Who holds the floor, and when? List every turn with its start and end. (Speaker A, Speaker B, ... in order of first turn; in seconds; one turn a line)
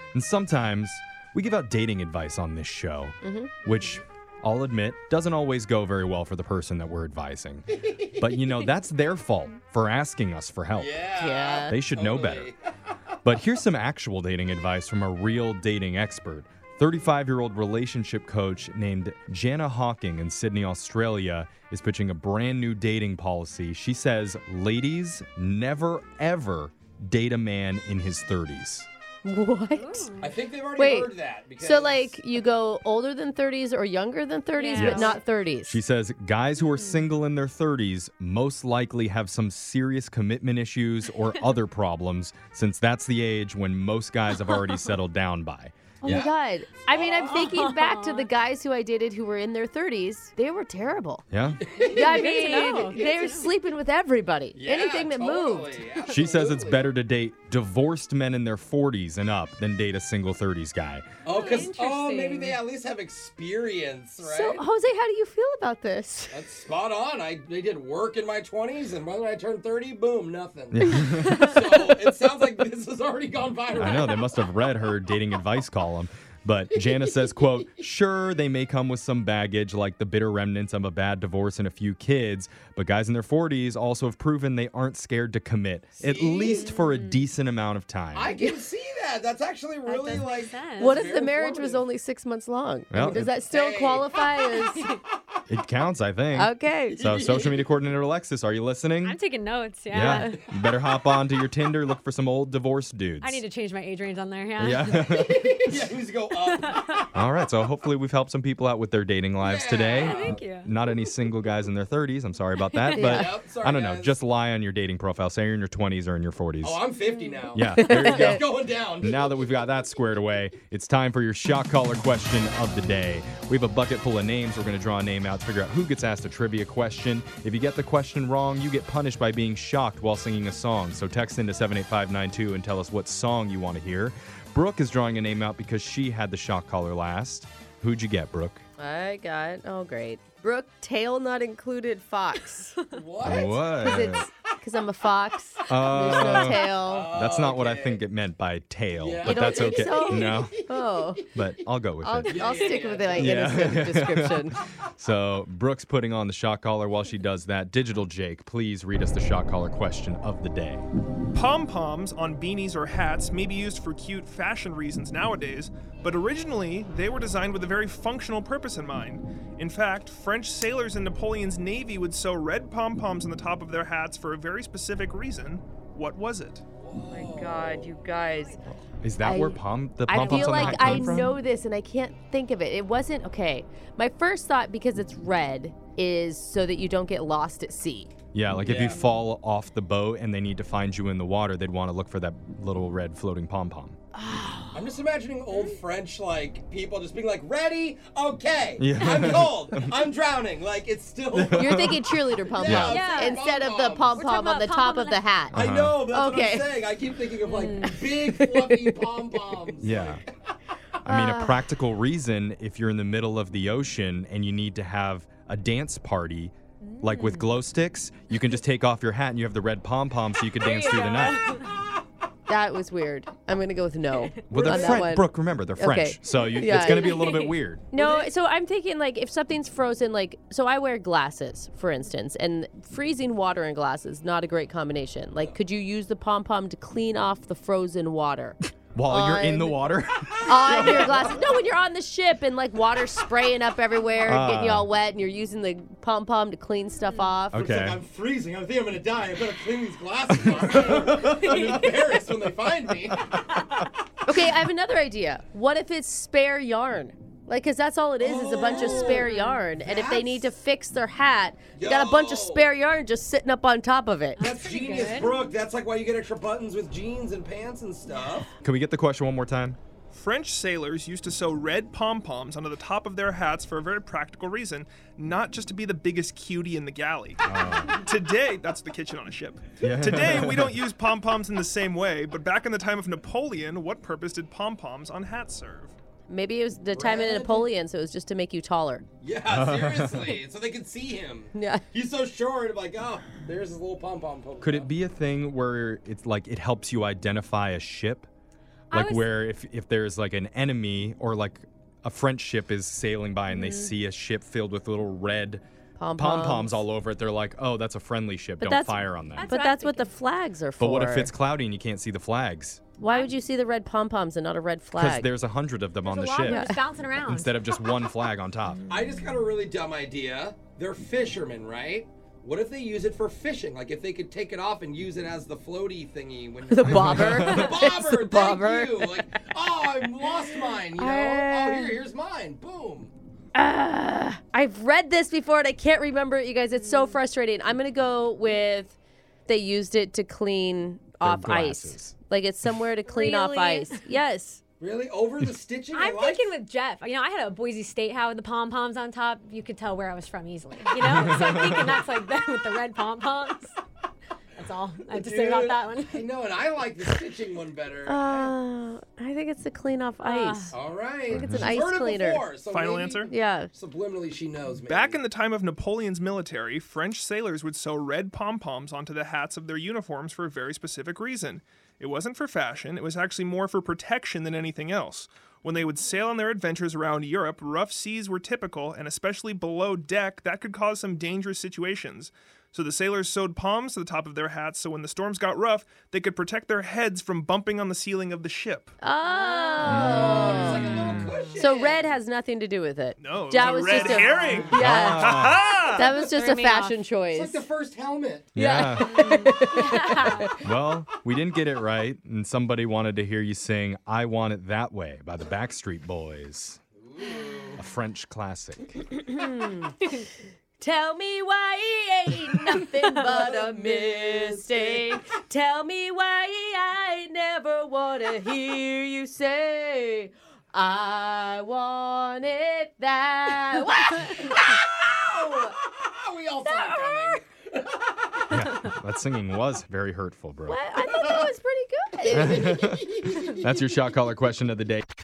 Speaker A: 0.1-10.9
Speaker B: 3.2-3.5
Speaker C: 7.7-8.1
Speaker C: 10.7-12.6
Speaker B: 11.2-11.8
Speaker A: 11.7-12.5
Speaker A: 13.2-28.9
Speaker B: 29.2-30.1
Speaker D: 29.7-30.4
Speaker C: 30.2-32.1
Speaker B: 30.8-35.8
Speaker D: 34.6-35.2
Speaker A: 34.7-35.1
Speaker A: 35.6-46.2
Speaker D: 36.7-37.1
Speaker D: 44.4-44.8
Speaker B: 46.0-51.2
Speaker C: 46.0-46.3
Speaker C: 46.9-47.4
Speaker D: 47.2-48.3
Speaker A: 51.3-51.6
Speaker C: 51.6-52.4
Speaker B: 51.8-55.8
Speaker D: 51.9-53.5
Speaker C: 54.5-56.9
Speaker A: 56.1-61.1
Speaker C: 61.2-64.6
Speaker D: 61.2-62.6
Speaker B: 64.2-66.4
Speaker C: 66.3-74.4
Speaker A: 70.7-71.4
Speaker A: 73.8-88.3
Speaker C: 76.8-77.6
Speaker C: 86.0-86.8
Speaker D: 86.5-87.2
Speaker C: 88.1-91.8
Speaker B: 88.3-88.6
Speaker D: 89.8-91.1
Speaker B: 90.8-94.9
Speaker A: 92.9-93.3
Speaker C: 93.4-94.1
Speaker A: 95.5-99.2
Speaker B: 96.3-97.0
Speaker C: 96.9-97.7
Speaker D: 99.0-100.4
Speaker A: 99.9-103.4
Speaker B: 100.0-100.3
Speaker D: 103.2-105.0
Speaker A: 104.6-105.8
Speaker C: 104.8-107.1
Speaker D: 106.5-107.0
Speaker A: 107.1-116.8
Speaker C: 109.4-110.4
Speaker D: 110.0-110.7
Speaker B: 113.0-113.3
Speaker C: 113.0-114.1
Speaker C: 116.6-119.3
Speaker A: 117.5-118.4
Speaker B: 117.8-118.4
Speaker A: 119.0-138.6
Speaker B: 138.8-142.8
Speaker C: 142.9-143.7
Speaker A: 143.2-144.2
Speaker B: 143.8-147.1
Speaker A: 145.7-150.6
Speaker C: 146.0-148.0
Speaker C: 149.0-150.9
Speaker B: 149.2-151.2
Speaker A: 151.3-152.5
Speaker B: 152.0-154.6
Speaker C: 152.2-153.7
Speaker A: 153.1-160.8
Speaker E: 161.3-176.6
Speaker C: 176.8-178.0
Speaker B: 177.0-178.6
Speaker A: 178.9-181.3
Speaker B: 179.2-188.1
Speaker C: 180.6-180.9
Speaker A: 188.3-194.0
Speaker C: 188.6-189.0
Speaker B: 194.1-194.8
Speaker C: 194.7-204.2
Speaker D: 195.5-195.8
Speaker A: 198.8-199.9
Speaker A: 201.3-202.9
Speaker B: 201.5-206.8
Speaker D: 202.9-203.4
Speaker D: 204.1-205.2
Speaker A: 205.5-206.0
Speaker C: 205.5-210.2
Speaker D: 207.4-208.0
Speaker B: 208.3-209.1
Speaker A: 209.8-210.2
Speaker A: 211.0-221.4
Speaker B: 211.1-211.6
Speaker D: 216.8-217.5
Speaker D: 220.6-221.7
Speaker B: 222.5-227.4
Speaker A: 224.5-227.8
Speaker C: 224.5-225.1
Speaker D: 226.7-228.0
Speaker B: 227.9-239.8
Speaker C: 228.0-228.2
Speaker A: 238.9-241.2
Speaker B: 240.4-247.6
Speaker C: 240.6-241.5
Speaker A: 244.2-244.8
Speaker D: 247.0-247.3
Speaker A: 247.5-248.0
Speaker C: 247.5-253.4
Speaker A: 250.9-251.5
Speaker D: 251.2-251.9
Speaker B: 254.3-264.4
Speaker C: 258.2-260.5
Speaker D: 258.6-259.6
Speaker C: 261.7-262.7
Speaker D: 264.4-265.4
Speaker C: 264.4-268.5
Speaker A: 268.6-269.8
Speaker E: 270.1-277.4
Speaker A: 277.4-277.9
Speaker E: 278.0-285.9
Speaker A: 279.8-280.8
Speaker B: 286.3-289.0
Speaker C: 286.9-287.7
Speaker C: 289.2-294.9
Speaker A: 289.5-290.3
Speaker B: 291.5-291.8
Speaker A: 294.6-298.3
Speaker A: 298.9-305.6
Speaker D: 298.9-299.2
Speaker D: 303.5-303.9
Speaker B: 306.0-306.8
Speaker A: 306.2-309.5
Speaker B: 308.6-311.3
Speaker D: 309.4-310.1
Speaker A: 310.8-312.8
Speaker B: 313.0-315.3
Speaker D: 313.1-313.3
Speaker A: 314.9-318.8
Speaker D: 316.0-317.5
Speaker B: 316.4-316.8
Speaker C: 318.9-333.1
Speaker B: 326.7-329.3
Speaker A: 326.9-327.6
Speaker B: 330.9-332.0
Speaker B: 333.5-338.9
Speaker D: 336.8-337.2
Speaker B: 339.5-344.6
Speaker A: 341.2-342.1
Speaker D: 343.1-344.0
Speaker C: 344.8-346.4
Speaker D: 345.9-353.7
Speaker A: 351.3-351.8
Speaker D: 354.6-356.2
Speaker C: 355.1-358.5
Speaker B: 358.1-360.8
Speaker D: 360.2-360.7
Speaker C: 360.7-365.2
Speaker A: 361.3-361.7
Speaker B: 361.3-362.6
Speaker E: 362.6-363.3
Speaker B: 363.2-363.7
Speaker E: 364.9-388.9
Speaker B: 389.0-395.4
Speaker D: 389.2-390.1
Speaker A: 389.8-391.2
Speaker C: 390.0-392.0
Speaker D: 391.3-391.6
Speaker E: 393.2-396.0
Speaker C: 393.6-394.6
Speaker A: 394.7-395.7
Speaker B: 395.9-397.6
Speaker D: 396.0-397.0
Speaker C: 397.3-398.5
Speaker A: 398.5-399.1
Speaker B: 398.6-400.6
Speaker D: 399.0-400.5
Speaker A: 400.6-406.8
Speaker C: 407.0-407.8
Speaker A: 407.8-409.0
Speaker B: 409.1-410.2
Speaker B: 410.8-425.7
Speaker C: 413.3-415.1
Speaker C: 424.3-428.0
Speaker B: 426.6-427.4
Speaker A: 428.5-430.8
Speaker B: 430.7-432.9
Speaker C: 431.0-431.5
Speaker C: 432.3-433.7
Speaker A: 432.3-435.0